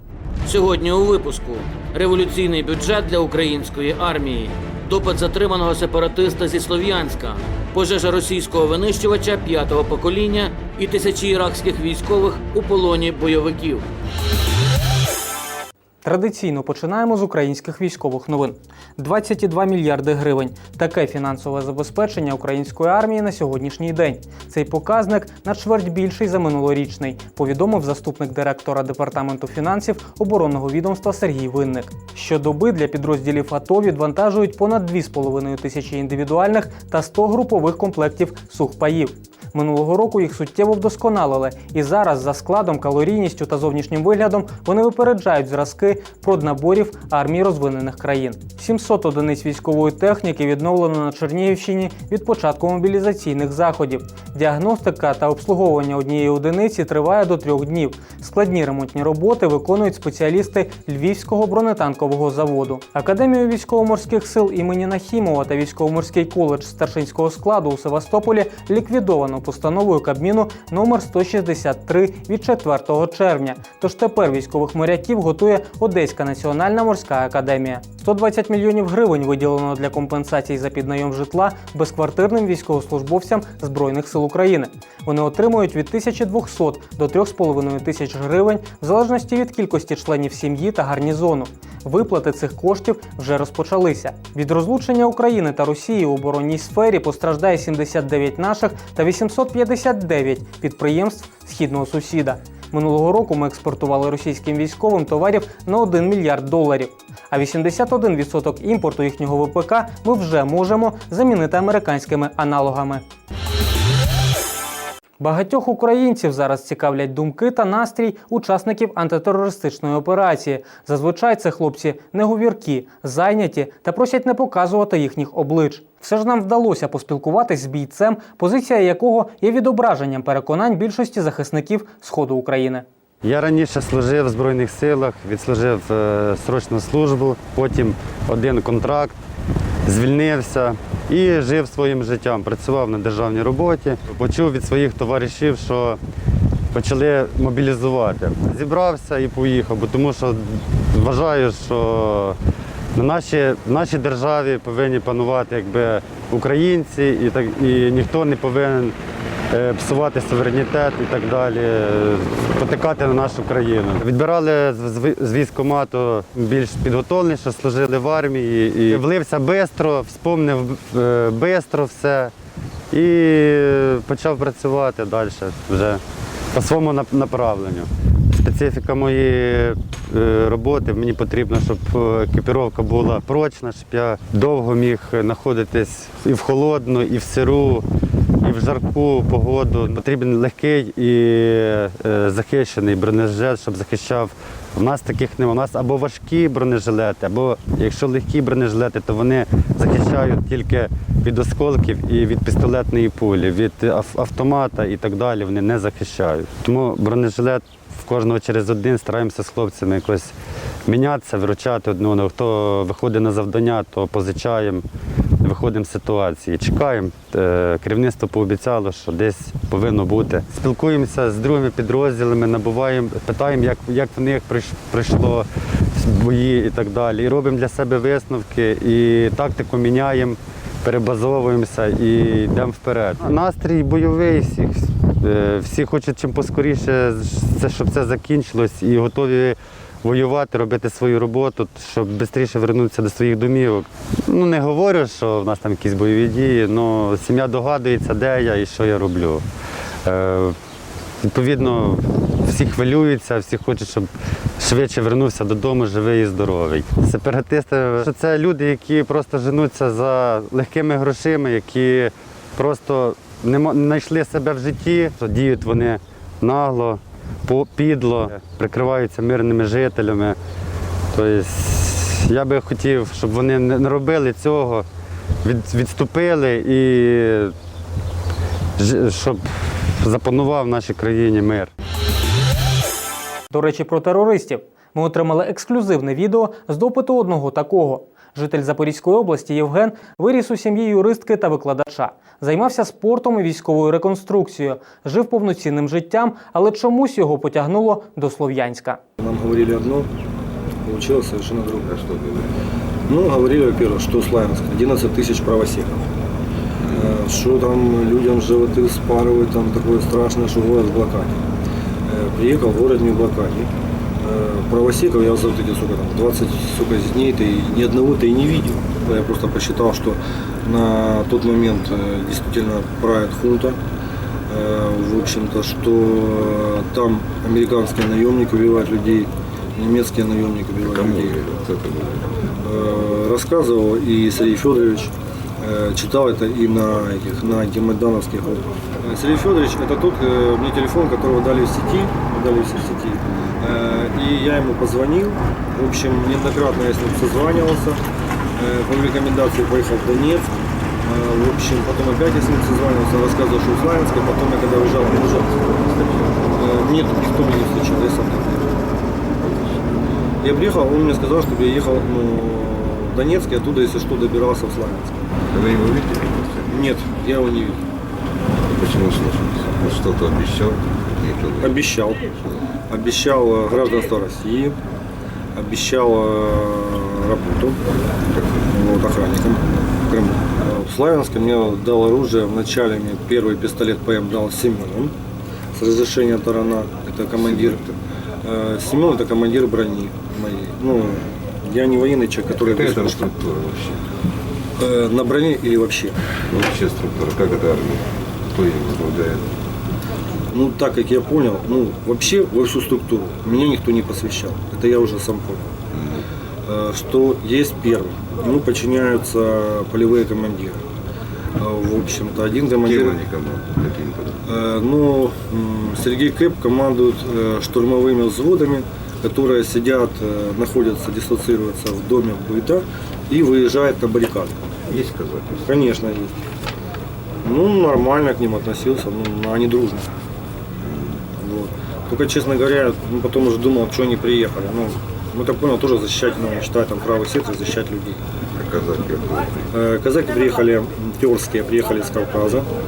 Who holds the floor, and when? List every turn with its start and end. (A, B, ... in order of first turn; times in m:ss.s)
0:00.4-0:13.9 A
0:16.0-1:53.0 B
1:55.2-2:12.8 B
2:13.2-2:19.2 C
2:19.8-2:26.0 C
2:26.7-2:32.4 C
2:32.9-2:38.9 C
2:39.5-2:52.3 C
2:52.9-2:56.0 C
2:56.5-3:07.9 C
3:08.4-3:30.3 C
3:30.8-3:34.8 C
3:35.4-4:09.4 C
4:10.0-4:10.6 C
4:11.2-4:30.4 C
4:31.1-4:34.8 C
4:35.4-4:37.5 C
4:38.8-4:41.7 C
4:43.5-4:59.0 B
4:59.2-5:00.1 D
5:00.8-5:01.9 D
5:01.9-5:02.5 E
5:03.1-5:06.1 D
5:06.9-5:11.4 D
5:12.1-5:23.8 D
5:24.5-5:31.4 D
5:30.8-5:32.2 E
5:32.6-5:48.0 D
5:48.6-5:50.5 D
5:51.0-5:55.5 D
5:56.6-5:58.7 D
5:59.4-5:59.8 E
6:00.4-6:05.2 D
6:05.5-6:06.8 E
6:06.7-6:07.8 D
6:08.8-6:11.7 E
6:11.6-6:12.2 D
6:12.9-6:14.7 D
6:15.6-6:17.8 D
6:18.3-6:18.6 E
6:18.7-6:25.1 D
6:25.8-6:27.8 D
6:27.4-6:27.8 E
6:28.4-6:33.3 D
6:32.7-6:34.0 E
6:34.8-6:36.2 D
6:36.5-6:38.0 E
6:38.6-6:39.4 E
6:40.5-6:45.7 D
6:45.9-6:46.2 E
6:46.6-6:50.8 D
6:51.6-6:53.2 D
6:52.8-6:54.4 E
6:54.4-7:04.6 D
7:05.0-7:05.7 E
7:05.6-7:06.4 D
7:07.4-7:10.1 D
7:11.3-7:18.2 D
7:18.6-7:19.5 E
7:19.7-7:22.7 D